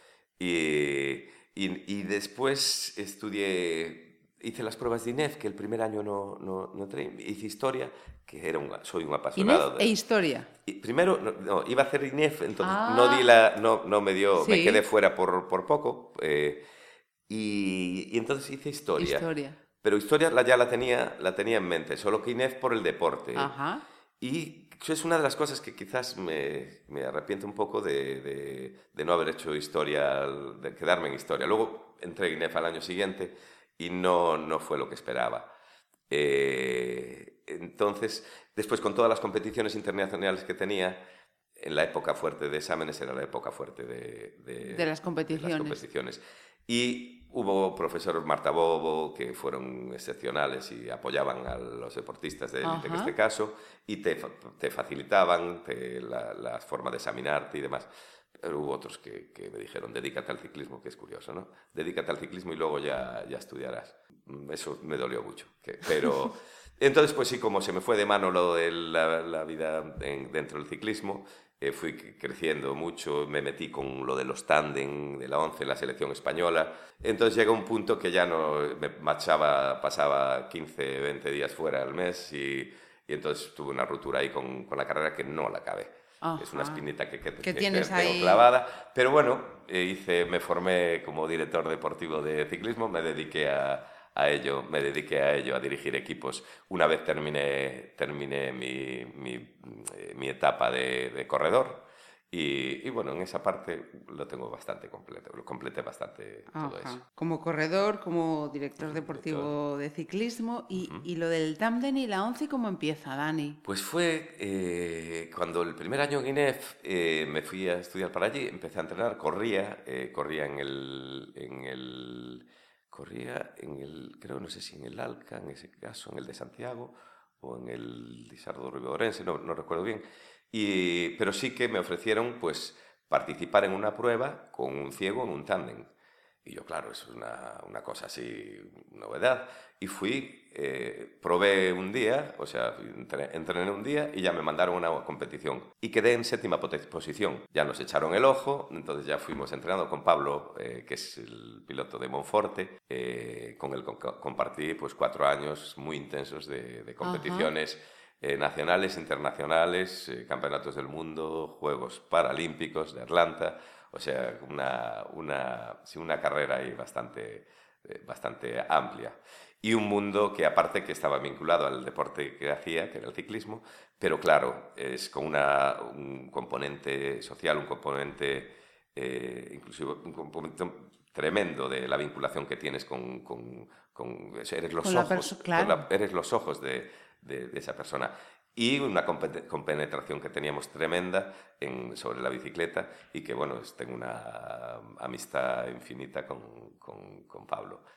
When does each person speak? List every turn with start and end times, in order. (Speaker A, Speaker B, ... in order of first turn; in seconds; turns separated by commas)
Speaker A: 0.4-9.9, Speaker B: 9.3-10.5, Speaker A: 10.6-16.6, Speaker B: 12.6-13.3, Speaker B: 14.4-14.8, Speaker A: 17.3-19.2, Speaker B: 19.0-19.6, Speaker A: 19.8-23.5, Speaker B: 23.4-23.8, Speaker A: 24.2-35.5, Speaker A: 36.1-41.0, Speaker A: 41.6-57.9, Speaker B: 44.7-45.8, Speaker B: 52.6-53.1, Speaker A: 58.4-107.0, Speaker B: 86.2-86.8, Speaker B: 87.4-88.4, Speaker B: 106.5-113.6, Speaker A: 108.8-109.5, Speaker A: 110.7-111.0, Speaker A: 113.6-135.9, Speaker A: 136.4-197.8, Speaker B: 157.0-157.5, Speaker B: 184.8-185.8